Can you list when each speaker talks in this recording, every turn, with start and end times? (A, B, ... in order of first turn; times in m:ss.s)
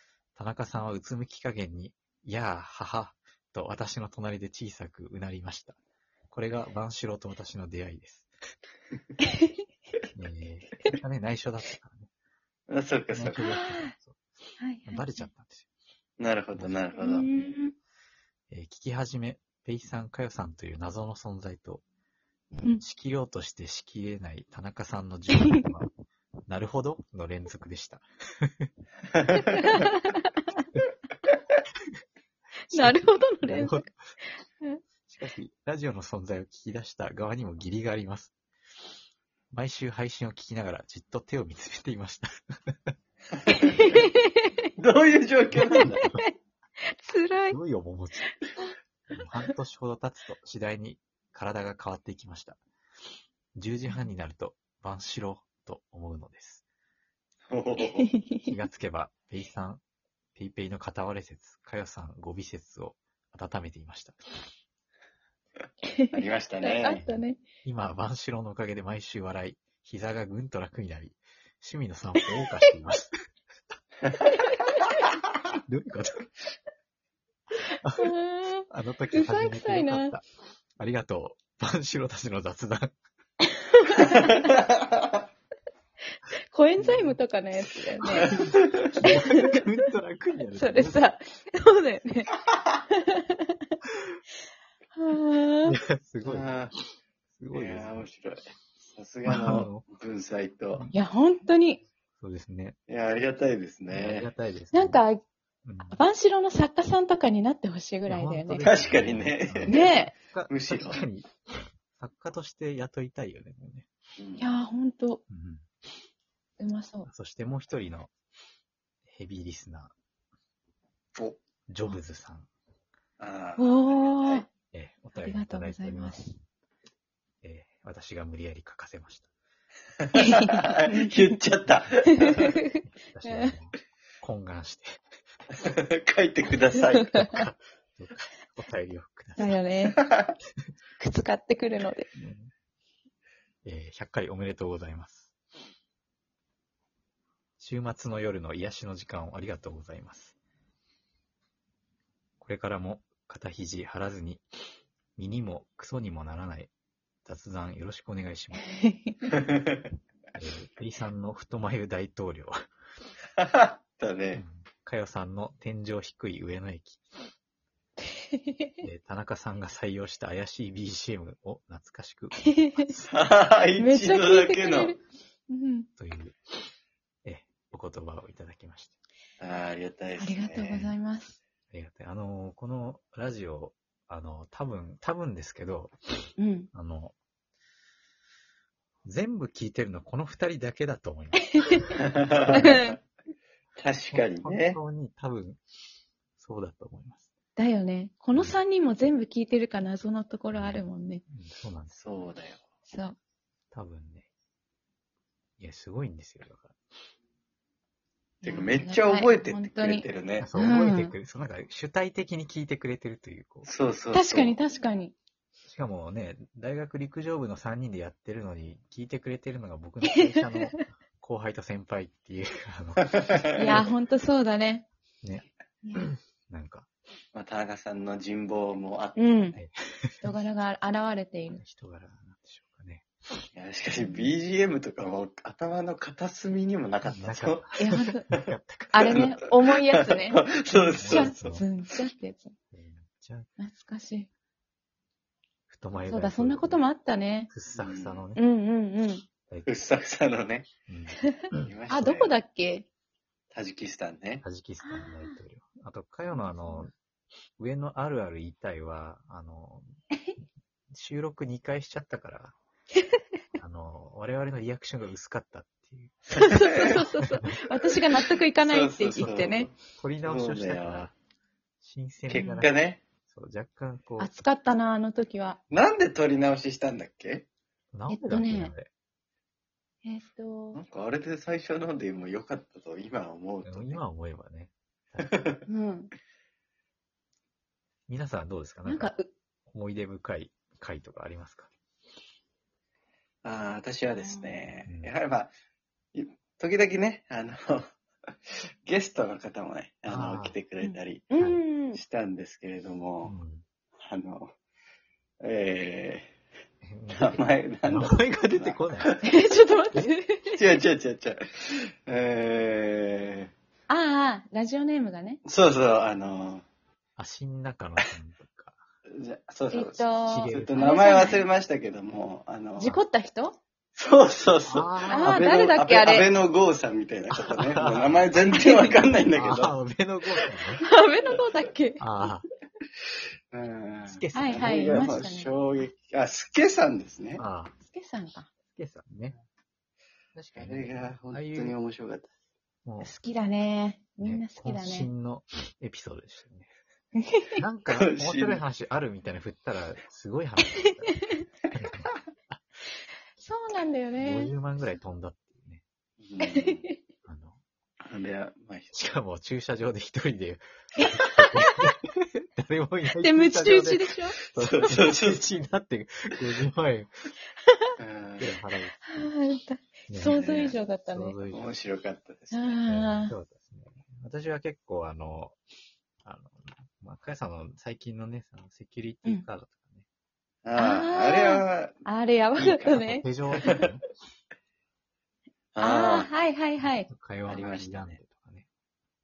0:00.3-0:05.8 A
0:06.3-0:08.3 A
0:10.1-0:12.1 A
0:12.7-0:13.4 B
0:13.1-0:14.2 A
0:13.4-0:13.9 C
0:14.6-0:15.1 C
0:14.8-0:15.7 A
0:16.2-0:17.3 B
0:17.0-0:17.7 C
0:18.5-0:21.8 A
0:22.8-0:25.9 A
0:26.5-0:28.7 A
0:29.4-0:30.3 C
0:32.7-0:33.9 C
0:32.7-0:33.9 A
0:35.1-0:38.3 A
0:39.5-0:42.7 A
0:43.5-0:44.5 C
0:44.8-0:46.1 B
0:45.7-0:46.3 C
0:47.0-0:47.6 C
0:47.5-0:48.3 A
0:49.1-0:52.6 A
0:53.6-0:56.6 A
0:57.5-0:58.1 B
0:57.8-0:58.5 C
0:58.4-0:59.8 A
1:00.3-1:04.2 A
1:05.9-1:07.4 C
1:06.1-1:07.0 B
1:06.9-1:13.1 A
1:14.3-1:14.9 C
1:15.7-1:16.3 A
1:17.8-1:18.1 A
1:18.0-1:20.1 C
1:18.7-1:20.2 A
1:20.8-1:22.9 A
1:23.5-1:24.5 C
1:24.0-1:25.2 B
1:26.5-1:28.4 C
1:26.8-1:27.2 A
1:28.0-1:31.1 A
1:28.2-1:28.8 B
1:29.0-1:29.7 C
1:30.5-1:32.3 C
1:32.9-1:33.5 C
1:34.9-1:35.8 C
1:35.7-1:36.5 A
1:36.2-1:36.7 B
1:37.4-1:38.0 A
1:37.5-1:40.8 B
1:39.2-1:39.8 A
1:40.9-1:41.8 C
1:42.2-1:42.8 A
1:42.9-1:44.3 B
1:43.9-1:45.0 A
1:44.7-1:45.2 C
1:45.6-1:46.0 A
1:45.9-1:48.7 C
1:48.0-1:51.3 A
1:48.6-1:49.9 B
1:49.7-1:50.1 C
1:50.5-1:51.0 B
1:51.9-1:53.9 A
1:54.2-1:54.4 B
1:54.4-1:55.2 C
1:55.3-1:55.6 A
1:56.6-1:57.1 C
1:57.0-1:58.1 A
1:59.1-1:59.9 A
2:01.7-2:02.5 A
2:03.2-2:04.4 B
2:03.6-2:04.5 C
2:04.7-2:06.2 A
2:05.1-2:06.3 C
2:07.4-2:09.3 A
2:10.1-2:11.4 C
2:10.4-2:12.5 B
2:12.2-2:13.5 C
2:12.8-2:15.0 A
2:15.6-2:17.1 B
2:16.7-2:17.4 C
2:17.1-2:19.6 A
2:19.4-2:20.0 C
2:19.9-2:20.3 B
2:21.0-2:22.1 C
2:22.2-2:22.5 A
2:23.6-2:25.3 A
2:27.6-2:30.4 A
2:32.4-2:34.4 A
2:35.2-2:36.7 A
2:37.2-2:38.6 A
2:38.6-2:39.3 C
2:40.4-2:42.5 A
2:43.4-2:44.4 B
2:44.3-2:47.0 A
2:48.5-2:48.8 C
2:48.8-2:53.1 A
2:52.4-2:52.9 C
2:53.0-2:54.9 B
2:53.8-2:55.0 C
2:55.5-2:55.9 C
2:56.0-2:56.4 A
2:57.2-2:58.9 A
2:59.4-3:00.8 B
3:00.2-3:01.4 C
3:01.7-3:05.9 A
3:06.4-3:06.7 C
3:06.7-3:07.1 A
3:09.0-3:12.7 A
3:11.6-3:11.9 C
3:12.0-3:12.7 B
3:12.5-3:13.0 C
3:13.8-3:14.8 B
3:14.1-3:15.6 A
3:16.4-3:17.3 A
3:17.6-3:21.2 C
3:18.3-3:18.6 A
3:20.5-3:22.0 A
3:21.9-3:22.6 B
3:22.8-3:23.2 C
3:23.7-3:24.3 A
3:25.6-3:26.8 A
3:28.4-3:31.1 C
3:28.4-3:30.5 B
3:30.4-3:33.7 A
3:33.6-3:34.6 B
3:34.1-3:35.1 C
3:35.7-3:43.9 A
3:40.1-3:40.7 C
3:43.0-3:43.4 B
3:43.5-3:44.8 C
3:45.2-3:46.9 A
3:47.3-3:49.6 B
3:49.2-3:49.6 C
3:49.6-3:50.3 A
3:50.2-3:51.6 C
3:51.5-3:53.0 A
3:53.5-3:57.7 B
3:53.9-3:54.3 C
3:57.0-3:59.3 A
3:57.8-3:58.3 C
3:58.9-4:02.5 C
3:59.1-4:01.6 B
4:01.0-4:01.6 A
4:02.7-4:03.5 A
4:03.6-4:04.3 C
4:05.7-4:06.8 A
4:06.1-4:07.5 C
4:07.5-4:08.4 A
4:07.7-4:08.2 B
4:08.4-4:09.2 C
4:09.6-4:10.7 B
4:10.9-4:11.7 A
4:11.6-4:12.3 B
4:11.9-4:12.9 C
4:13.5-4:14.4 B
4:14.4-4:16.9 A
4:14.8-4:15.4 C
4:16.3-4:16.9 C
4:17.6-4:19.9 A
4:20.9-4:22.6 A
4:23.6-4:27.0 A
4:26.3-4:29.7 C
4:28.6-4:31.1 B
4:29.2-4:31.1 A
4:31.8-4:34.4 A
4:32.3-4:33.0 B
4:32.3-4:32.7 C
4:34.2-4:35.6 C
4:35.7-4:37.4 B
4:37.9-4:38.9 A
4:38.1-4:38.7 C
4:40.0-4:40.8 C
4:40.7-4:44.0 B
4:43.6-4:45.4 A
4:45.2-4:45.6 B
4:45.7-4:46.1 C
4:48.1-4:49.1 A
4:48.8-4:49.3 C
4:49.7-4:51.7 A
4:53.4-4:55.5 B
4:54.2-4:54.5 C
4:54.8-4:55.1 A
4:56.1-4:57.9 B
4:58.8-5:01.3 B
5:00.1-5:00.6 A
5:00.8-5:02.0 C
5:01.9-5:03.3 B
5:03.2-5:03.6 A
5:04.0-5:04.5 B
5:05.4-5:06.3 B
5:06.8-5:09.2 A
5:07.1-5:09.2 B
5:09.2-5:10.6 C
5:10.5-5:13.5 B
5:13.9-5:15.4 C
5:15.4-5:16.6 B
5:17.2-5:18.8 A
5:19.1-5:22.9 B
5:19.7-5:21.4 C
5:20.2-5:20.8 A
5:22.8-5:23.6 C
5:24.0-5:29.8 B
5:24.7-5:25.5 A
5:25.1-5:26.3 C
5:27.3-5:28.3 A
5:28.5-5:28.9 C
5:29.3-5:30.8 A
5:30.8-5:32.0 C
5:32.0-5:32.4 A
5:33.5-5:37.4 B
5:34.1-5:35.3 A
5:34.3-5:35.6 C
5:37.4-5:37.7 A
5:37.8-5:38.5 C
5:38.7-5:39.4 A
5:40.3-5:41.8 A
5:40.6-5:42.3 B
5:42.8-5:43.1 A
5:43.0-5:45.1 C
5:44.2-5:46.7 A
5:47.2-5:47.6 C
5:47.6-5:52.6 A
5:47.9-5:48.6 B
5:53.4-5:54.5 C
5:54.2-5:55.8 A
5:56.2-5:56.8 B
5:56.4-5:57.0 C
5:57.2-5:57.6 A
5:58.0-5:58.9 B
5:58.9-6:07.1 A
6:01.1-6:01.9 C
6:03.2-6:04.4 C
6:04.5-6:05.5 B
6:07.7-6:07.9 C
6:08.0-6:08.5 B
6:08.4-6:09.3 A
6:09.1-6:11.4 C
6:10.1-6:11.7 A
6:10.2-6:10.8 B
6:11.5-6:12.6 B
6:12.5-6:13.3 C
6:12.9-6:15.6 A
6:16.2-6:20.0 A
6:20.6-6:22.0 B
6:20.8-6:23.7 C
6:22.6-6:24.0 A
6:25.7-6:26.3 B
6:25.8-6:27.1 C
6:26.8-6:28.6 A
6:27.5-6:28.2 B